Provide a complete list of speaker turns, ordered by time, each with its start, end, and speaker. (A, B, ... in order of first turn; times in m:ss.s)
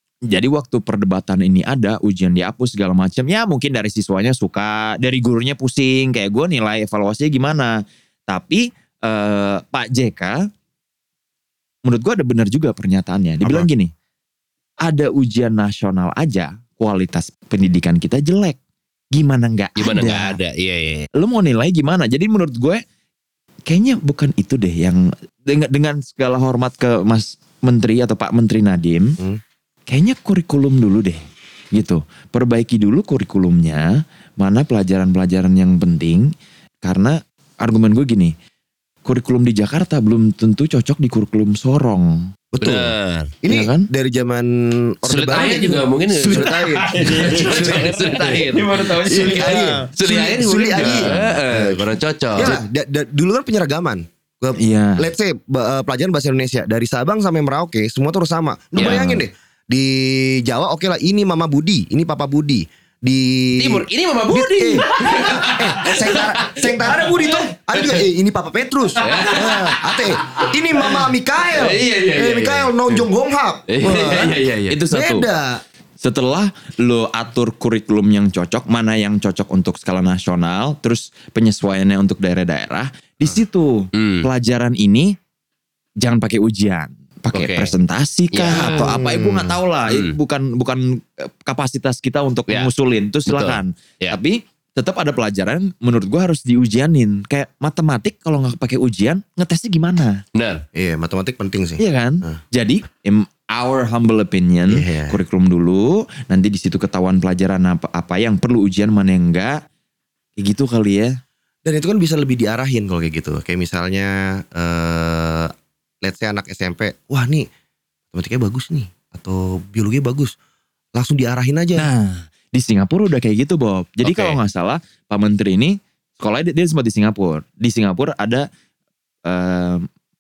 0:00.3-0:10.4 A
0:11.8-0:13.9 A
0:14.8-0:18.6 A
0:19.1-0:20.4 A
0:19.8-0:21.1 B
0:21.2-0:22.8 A
0:23.7-0:29.2 A
0:29.9-0:31.2 A
0:31.7-0:38.3 A
0:39.0-0:42.3 A
0:42.5-0:48.0 C
0:42.6-0:43.3 B
0:43.5-0:43.9 A
0:45.1-0:52.6 B
0:46.4-0:49.9 A
0:49.0-0:51.8 C
0:50.8-0:51.2 A
0:52.4-1:14.4 C
0:54.6-0:55.1 A
0:58.8-0:59.2 A
1:03.6-1:08.0 B
1:09.0-1:13.0 B
1:13.7-1:14.8 B
1:14.7-1:15.3 A
1:14.9-1:15.6 C
1:16.0-1:25.1 A
1:24.0-1:24.3 B
1:26.0-1:40.2 A
1:27.3-1:27.7 B
1:28.3-1:28.9 B
1:28.6-1:29.6 C
1:29.9-1:30.2 B
1:33.3-1:34.2 B
1:40.4-1:40.6 B
1:40.8-1:42.4 C
1:41.8-1:49.6 A
1:44.7-1:45.2 C
1:50.4-1:51.2 A
1:51.6-1:57.5 C
1:58.1-2:00.4 C
2:01.0-2:01.9 C
2:01.8-2:08.5 A
2:04.0-2:04.4 B
2:09.3-2:09.9 A